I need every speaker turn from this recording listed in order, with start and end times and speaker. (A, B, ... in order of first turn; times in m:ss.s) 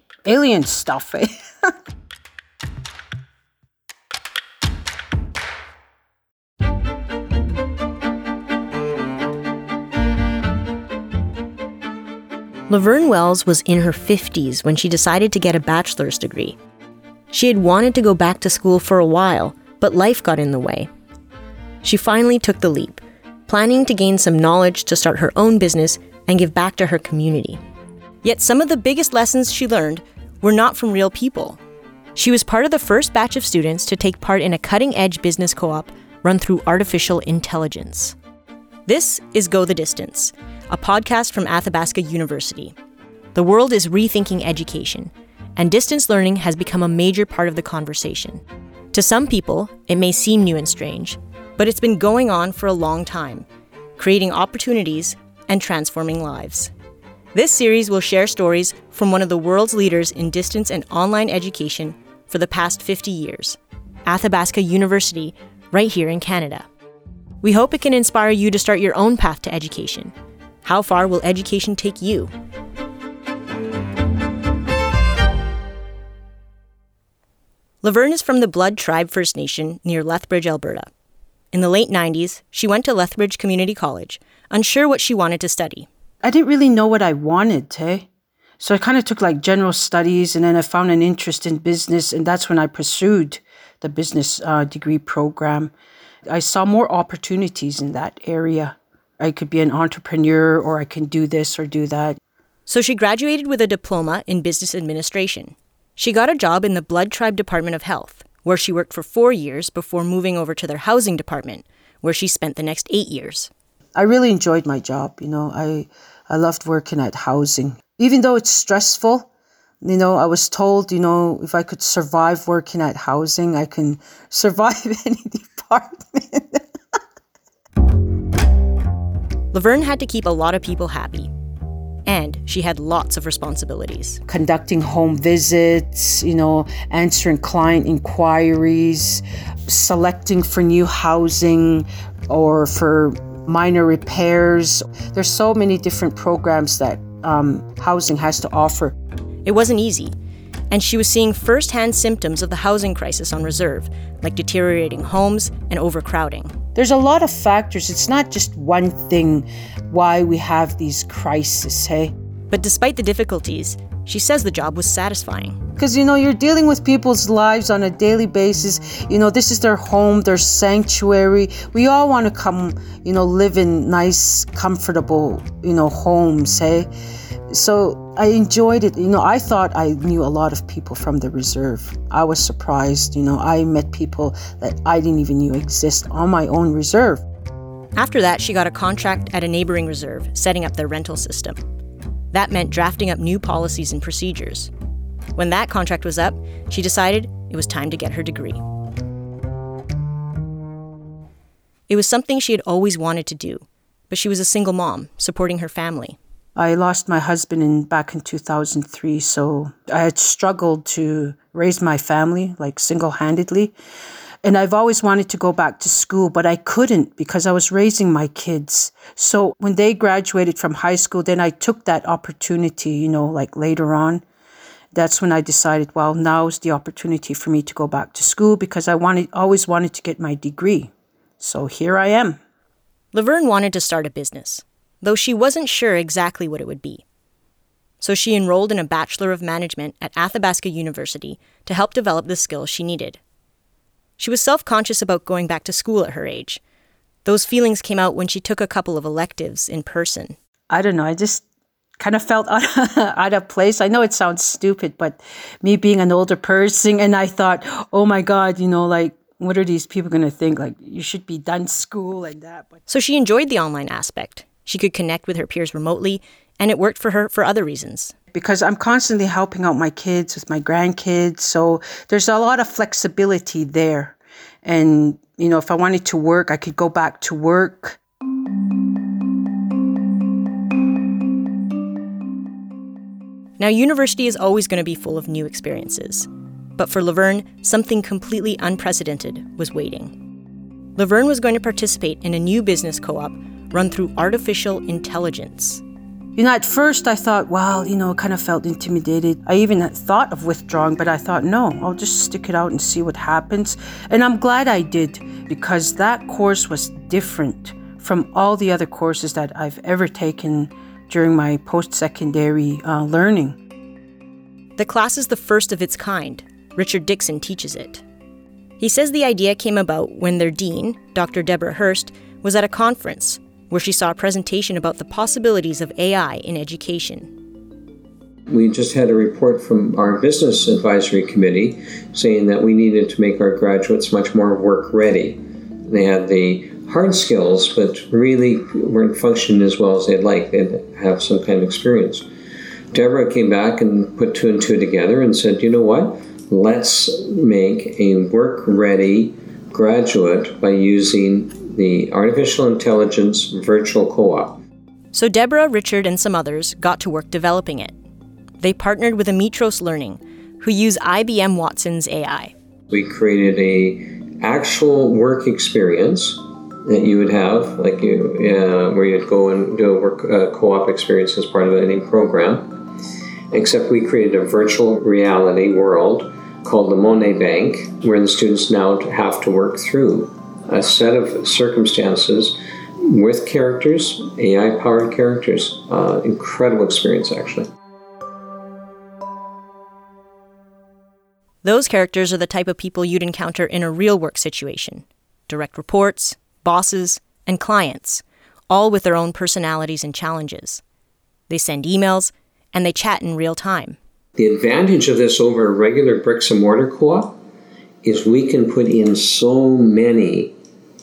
0:00.2-0:01.7 A
0:12.7-0:16.6 B
0:17.3-0:20.9 B
0:21.8-0:27.6 B
0:28.2-0:31.6 B
0:32.1-0:38.2 B
0:38.9-0:42.7 B
0:43.3-0:48.4 B
0:48.9-0:53.4 B
0:54.0-0:56.7 B
0:57.3-1:06.7 B
1:07.4-1:10.1 B
1:10.6-1:12.3 B
1:17.8-1:20.9 B
1:21.5-1:25.9 B
1:26.2-1:28.1 A
1:28.6-1:35.7 A
1:36.3-1:42.2 A
1:42.6-1:53.5 B
1:54.0-1:59.3 A
1:59.8-2:06.6 A
2:09.5-2:11.3 B
2:12.0-2:14.2 B
2:14.3-2:28.9 A
2:29.4-2:30.1 B
2:30.7-2:36.5 B
2:36.7-2:42.1 A
2:42.5-2:45.6 B
2:45.8-2:56.9 A
2:57.5-3:07.2 A
3:07.9-3:11.6 B
3:12.3-3:14.7 B
3:15.3-3:18.6 B
3:21.9-3:26.2 B
3:26.6-3:33.7 A
3:34.4-3:44.2 A
3:44.9-3:52.4 A
3:53.1-3:57.0 B
3:58.0-4:03.2 B
4:04.2-4:06.6 B
4:07.2-4:10.4 B
4:10.7-4:11.4 A
4:12.0-4:22.8 A
4:22.9-4:28.1 B
4:28.3-4:38.0 A
4:43.6-4:50.1 B
4:51.0-4:55.8 B
4:56.4-5:13.6 A
5:14.8-5:18.0 B
5:18.8-5:27.3 B
5:28.5-5:42.2 C
5:42.9-5:54.6 C
5:55.1-5:57.9 B
5:58.6-6:02.5 B
6:02.9-6:12.7 C
6:13.5-6:22.6 C
6:23.1-6:27.7 C
6:31.6-6:40.8 B
6:41.5-6:44.0 B
6:44.4-6:47.4 C
6:48.0-6:50.5 C